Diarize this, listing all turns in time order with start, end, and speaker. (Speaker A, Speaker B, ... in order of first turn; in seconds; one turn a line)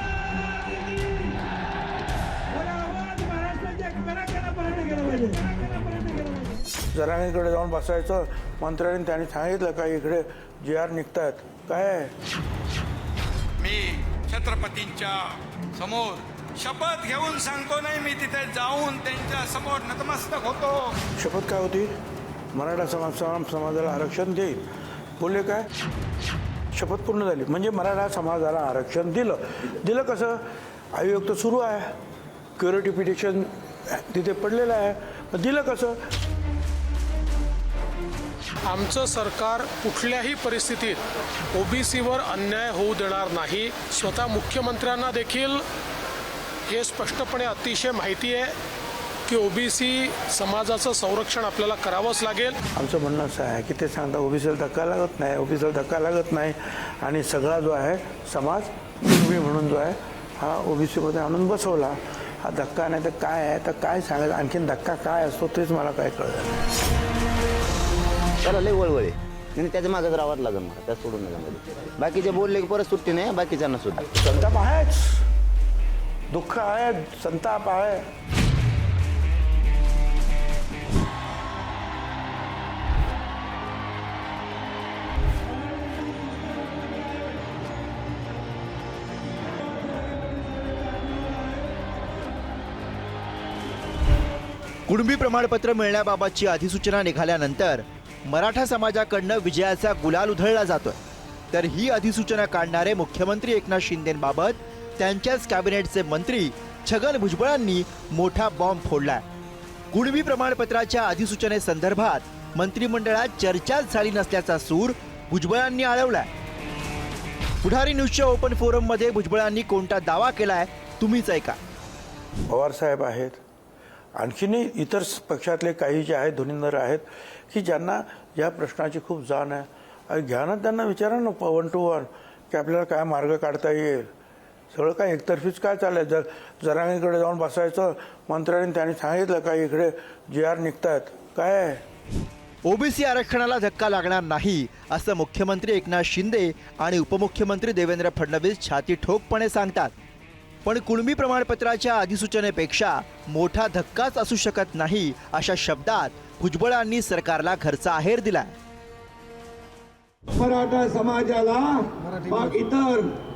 Speaker A: 2.8-6.1
Speaker B: 6.9-12.1
Speaker C: 13.6-20.9
Speaker B: 21.2-21.9
Speaker B: 22.5-24.7
Speaker B: 25.2-25.7
Speaker B: 26.7-31.9
Speaker B: 32.6-36.1
Speaker D: 38.6-41.0
Speaker D: 41.5-45.6
Speaker D: 46.7-48.5
Speaker D: 49.3-52.6
Speaker B: 52.8-66.6
Speaker E: 68.4-74.1
Speaker B: 74.2-75.2
Speaker B: 76.3-78.0
Speaker F: 94.9-101.0
Speaker F: 101.5-109.2
Speaker F: 109.9-116.3
Speaker F: 117.6-121.6
Speaker B: 122.5-123.4
Speaker B: 124.2-134.1
Speaker B: 134.7-141.8
Speaker F: 142.7-149.9
Speaker F: 150.7-158.5
Speaker A: 160.3-163.1